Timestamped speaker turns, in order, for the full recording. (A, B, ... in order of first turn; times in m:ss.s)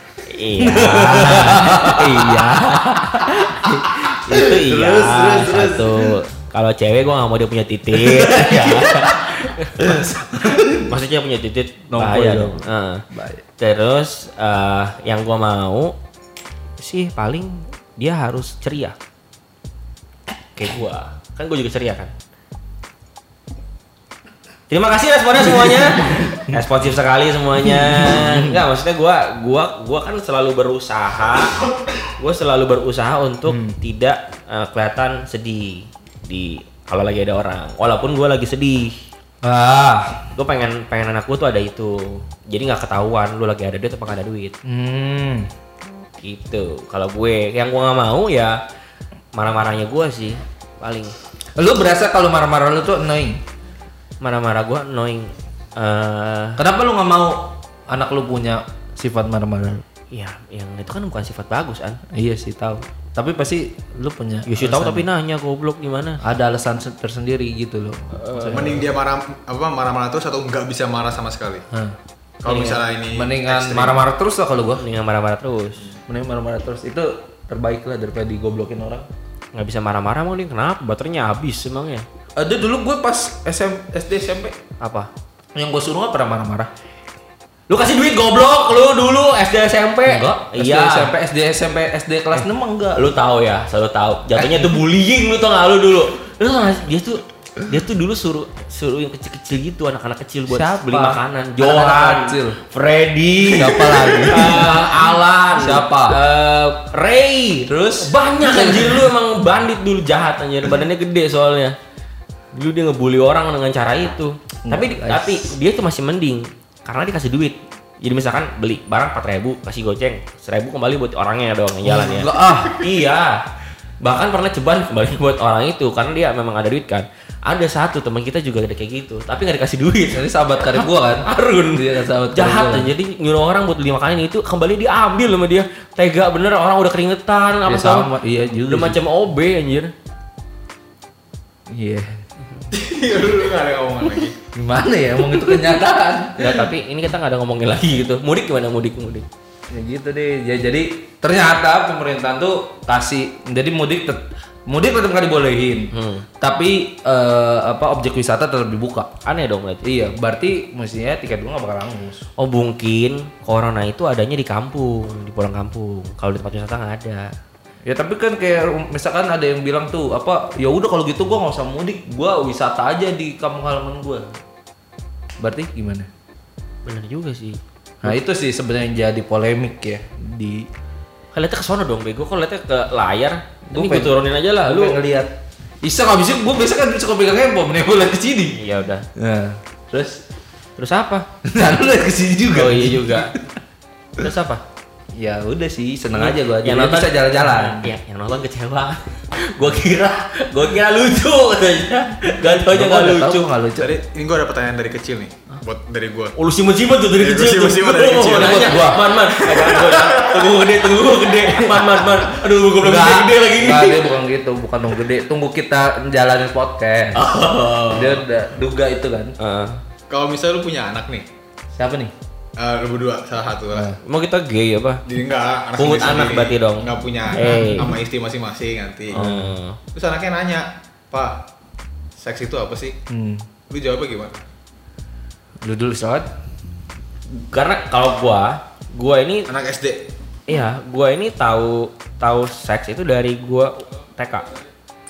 0:00.3-0:13.0 A
0:00.6-0:02.6 B
0:03.2-0:06.2 B
0:07.9-0:10.9 B
0:11.9-0:13.4 B
0:13.6-0:16.0 A
0:16.8-0:19.0 A
0:20.6-0:22.1 A
0:24.7-0:39.0 A
0:25.5-0:26.6 B
0:27.6-0:28.6 B
0:33.5-0:33.8 B
0:39.4-0:40.3 B
0:40.4-0:44.6 A
0:44.6-0:45.5 B
0:46.2-0:48.6 A
0:49.4-0:51.2 A
0:51.6-0:53.4 B
0:54.2-0:56.6 A
0:56.6-0:59.8 B
1:00.1-1:02.0 A
1:02.1-1:05.1 B
1:04.5-1:06.2 A
1:06.2-1:08.9 B
1:08.2-1:08.6 A
1:08.5-1:11.7 C
1:12.4-1:14.0 C
1:12.5-1:12.8 A
1:12.5-1:14.8 B
1:14.8-1:15.9 A
1:16.1-1:19.1 B
1:19.5-1:22.1 A
1:22.4-1:24.6 B
1:24.8-1:25.1 A
1:25.6-1:26.7 B
1:27.7-1:31.1 A
1:30.1-1:33.1 B
1:33.0-1:51.8 A
1:34.4-1:34.8 B
1:40.5-1:42.6 B
1:43.5-1:44.9 B
1:45.5-1:46.2 B
1:47.7-1:49.1 B
1:52.5-2:03.4 A
1:54.7-1:55.5 B
2:01.8-2:02.8 B
2:04.0-2:18.1 A
2:10.1-2:12.9 B
2:17.7-2:19.0 B
2:18.7-2:19.9 A
2:21.7-2:22.2 B
2:22.7-2:24.4 C
2:24.6-2:26.7 B
2:26.4-2:29.3 A
2:29.7-2:39.1 B
2:35.9-2:36.3 A
2:39.2-2:39.9 A
2:39.8-2:42.2 B
2:42.4-2:47.3 A
2:47.8-2:54.4 B
2:55.4-2:56.1 B
2:56.8-2:58.1 A
2:58.0-3:00.7 B
3:01.3-3:05.0 A
3:03.7-3:08.6 B
3:08.6-3:09.1 A
3:09.2-3:10.2 B
3:10.8-3:11.3 A
3:11.4-3:13.5 B
3:12.5-3:13.3 A
3:14.2-3:14.6 A
3:15.2-3:17.9 B
3:16.1-3:23.5 A
3:22.5-3:23.9 B
3:23.8-3:26.4 C
3:26.4-3:34.1 A
3:27.1-3:28.9 C
3:28.3-3:30.2 B
3:29.7-3:30.0 C
3:31.3-3:32.1 B
3:32.8-3:37.3 B
3:37.2-3:38.2 A
3:37.9-3:39.4 B
3:39.4-3:39.8 A
3:40.1-3:41.3 C
3:41.7-3:42.1 B
3:42.6-3:44.0 C
3:43.7-3:44.0 B
3:44.0-3:45.0 A
3:45.1-3:49.2 C
3:45.8-3:47.9 A
3:47.3-3:48.0 B
3:49.1-3:49.8 A
3:49.1-3:49.6 B
3:49.9-3:51.5 C
3:52.2-3:53.0 C
3:53.1-3:53.5 B
3:53.7-3:54.4 C
3:55.6-3:56.3 B
3:57.4-3:59.5 A
3:59.5-4:00.1 C
4:00.5-4:04.5 A